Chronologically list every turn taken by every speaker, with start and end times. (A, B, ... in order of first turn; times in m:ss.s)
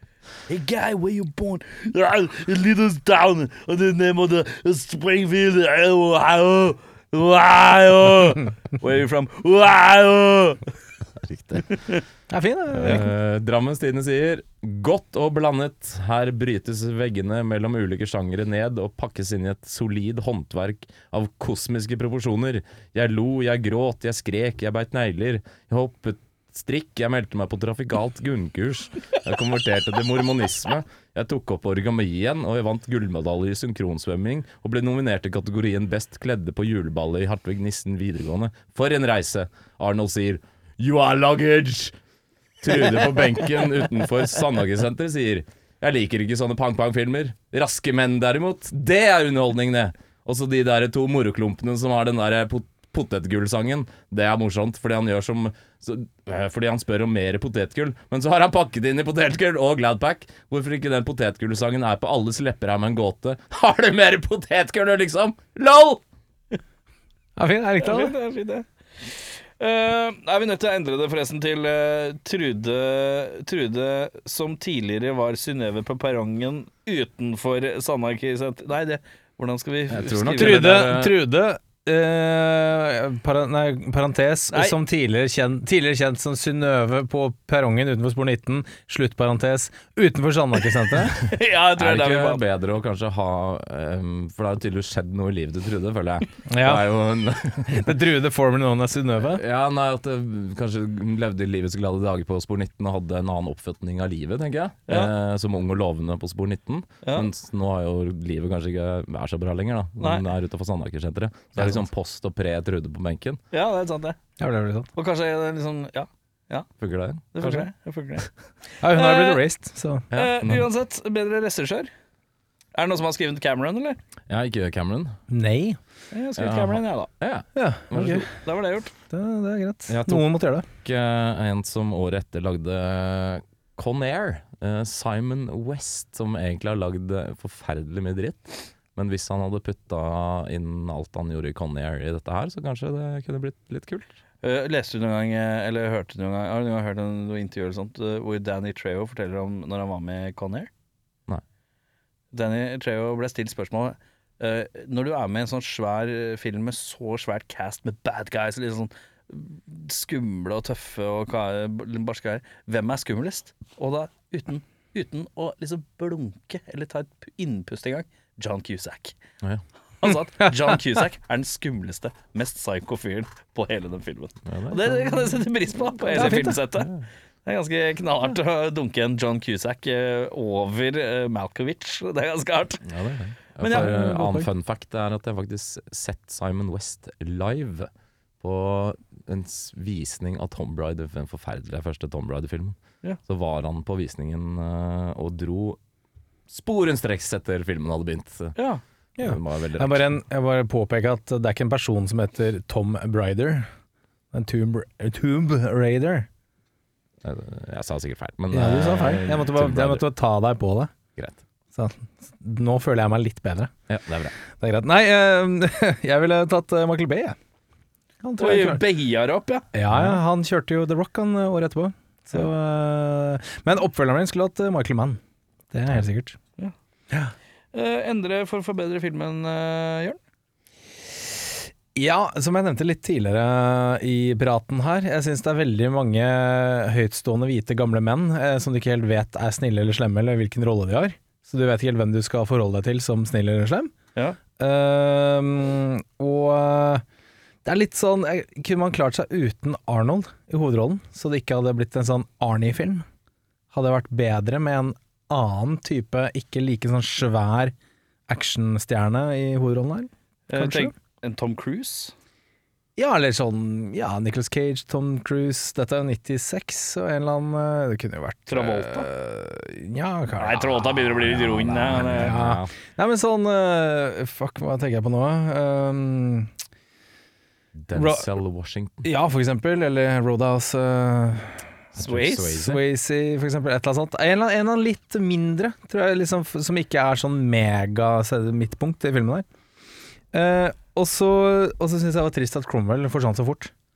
0:00.5-0:10.7 A
0:11.2-0:11.8 B
0:11.6-0:12.0 A
0:12.3-0:13.1 C
0:12.7-0:42.0 B
0:42.6-1:06.0 B
1:07.4-1:08.1 C
1:07.8-1:08.7 A
1:09.2-1:20.8 A
1:19.9-1:21.2 B
1:20.3-1:31.1 C
1:24.5-1:24.8 A
1:31.0-1:37.9 B
1:31.1-1:32.4 A
1:36.5-1:36.9 C
1:37.7-1:39.4 C
1:39.4-1:53.4 B
1:51.6-1:51.9 C
1:53.5-1:54.2 A
1:54.4-1:54.9 C
1:55.0-1:56.7 A
1:56.8-1:57.7 B
1:57.4-1:58.3 A
1:58.8-2:00.1 C
1:59.0-1:59.4 A
2:00.1-2:00.7 B
2:00.1-2:01.9 A
2:02.7-2:04.0 A
2:04.3-2:05.2 B
2:05.3-2:05.8 C
2:06.1-2:07.1 A
2:06.4-2:08.3 B
2:07.6-2:08.3 C
2:08.3-2:08.9 A
2:09.1-2:10.7 C
2:09.9-2:24.2 B
2:24.4-2:30.7 A
2:32.3-2:49.2 A
2:50.0-2:56.9 A
2:54.5-2:55.4 B
2:56.0-2:57.0 B
2:56.2-2:56.6 C
2:57.4-3:02.8 A
3:02.8-3:07.9 B
3:03.6-3:03.9 A
3:03.6-3:04.5 C
3:08.4-3:12.8 B
3:13.3-3:15.8 B
3:16.5-3:18.6 B
3:18.6-3:18.8 A
3:19.2-3:20.1 B
3:19.2-3:23.7 C
3:24.3-3:26.3 C
3:27.2-3:30.1 B
3:28.5-3:30.9 C
3:31.7-3:33.7 C
3:33.9-3:34.3 B
3:34.5-3:37.4 C
3:38.2-3:38.8 C
3:38.4-3:39.7 A
3:39.7-3:45.2 C
3:39.9-3:40.2 B
3:45.7-3:46.4 C
3:47.7-3:50.2 A
3:52.0-4:03.9 C
4:04.6-4:07.0 C
4:07.6-4:13.0 C
4:13.7-4:17.8 C
4:18.3-4:20.9 C
4:20.5-4:22.1 A
4:23.0-4:30.9 C
4:28.5-4:29.1 A
4:30.4-4:32.4 A
4:31.2-4:32.7 B
4:32.0-4:36.5 C
4:37.8-4:39.1 B
4:37.9-4:38.2 C
4:39.0-4:41.6 C
4:41.9-4:42.8 B
4:42.0-4:42.6 A
4:42.5-4:49.4 C
4:50.3-4:53.7 C